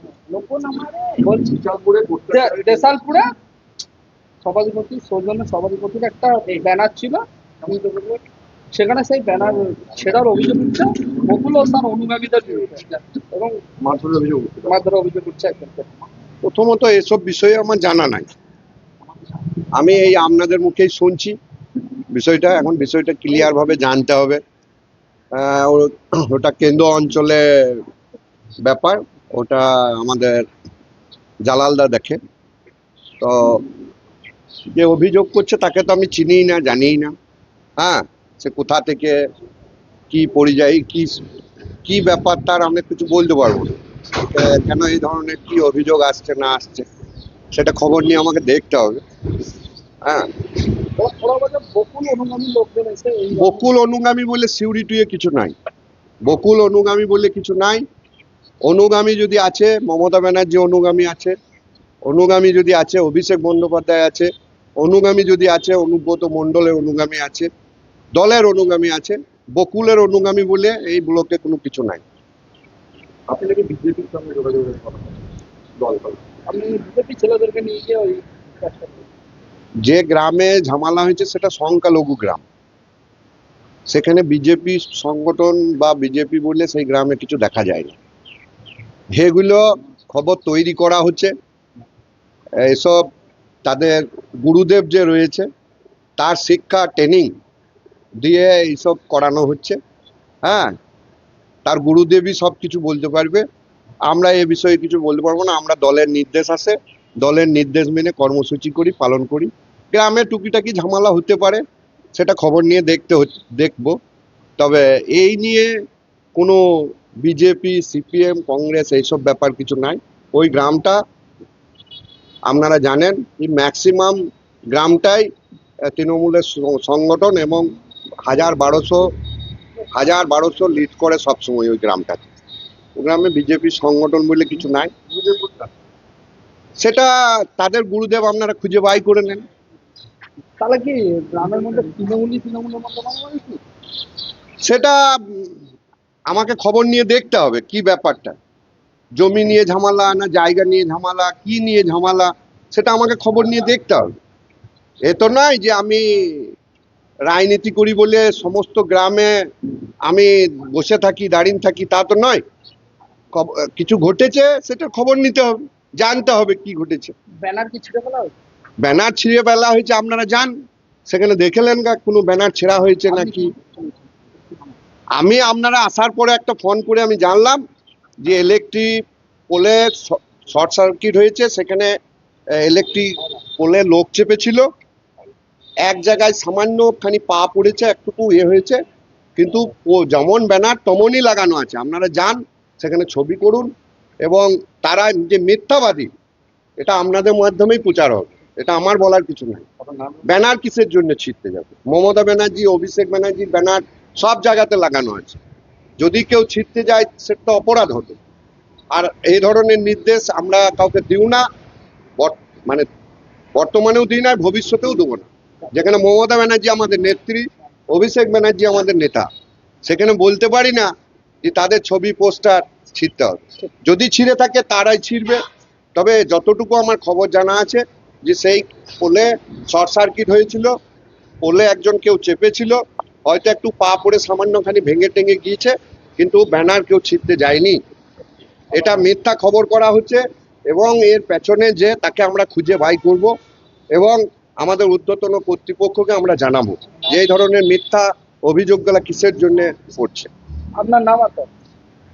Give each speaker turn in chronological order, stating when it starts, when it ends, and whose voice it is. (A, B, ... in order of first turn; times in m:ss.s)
0:00.2-0:03.2 A
0:04.4-0:08.2 A
0:08.7-0:13.6 A
0:13.8-0:14.7 B
0:14.6-0:15.9 A
0:16.4-0:18.3 B
0:19.7-0:21.4 B
0:22.1-0:24.4 B
0:25.3-0:27.9 B
0:28.6-0:30.4 B
0:31.4-0:32.2 B
0:33.2-0:33.7 B
0:34.7-0:37.1 B
0:37.8-0:39.2 B
0:40.1-0:41.3 B
0:41.8-0:46.9 B
0:47.5-0:49.0 B
0:50.0-0:50.3 B
0:50.9-0:53.6 A
0:53.3-0:55.5 B
0:56.2-0:57.8 B
0:58.6-1:01.3 B
1:02.0-1:07.5 B
1:08.1-1:12.0 B
1:13.3-1:15.0 C
1:15.8-1:16.2 C
1:16.5-1:19.0 A
1:19.8-1:22.4 B
1:23.9-1:28.0 B
1:29.1-1:31.3 B
1:32.6-1:33.0 B
1:33.6-1:35.5 B
1:36.2-1:37.3 B
1:38.2-1:39.8 B
1:40.4-1:40.8 B
1:41.6-1:43.4 B
1:44.1-1:51.6 B
1:52.1-1:54.0 B
1:54.6-1:55.8 B
1:56.4-2:01.0 B
2:02.4-2:04.2 B
2:04.7-2:05.3 B
2:05.8-2:09.1 B
2:09.9-2:12.3 B
2:13.0-2:14.9 B
2:16.8-2:19.4 B
2:20.6-2:23.6 A
2:24.6-2:25.6 B
2:26.3-2:28.4 B
2:29.1-2:34.1 B
2:35.0-2:36.5 B
2:37.3-2:39.5 B
2:40.0-2:42.4 B
2:43.3-2:47.1 B
2:47.4-2:48.3 A
2:48.8-2:50.5 B
2:51.1-2:53.5 B
2:53.1-2:54.0 A
2:55.1-2:57.6 B
2:58.2-2:58.9 B
2:59.5-3:01.9 B
3:02.5-3:04.7 B
3:05.8-3:08.8 B
3:09.4-3:13.7 B
3:14.2-3:16.1 B
3:16.8-3:19.7 B
3:20.2-3:25.4 B
3:26.0-3:28.2 B
3:28.9-3:31.4 B
3:32.2-3:32.9 B
3:33.5-3:39.3 B
3:39.8-3:40.9 B
3:41.4-3:45.4 B
3:45.9-3:50.7 B
3:51.4-3:57.8 B
3:58.7-4:03.3 B
4:03.9-4:10.3 B
4:10.8-4:11.5 A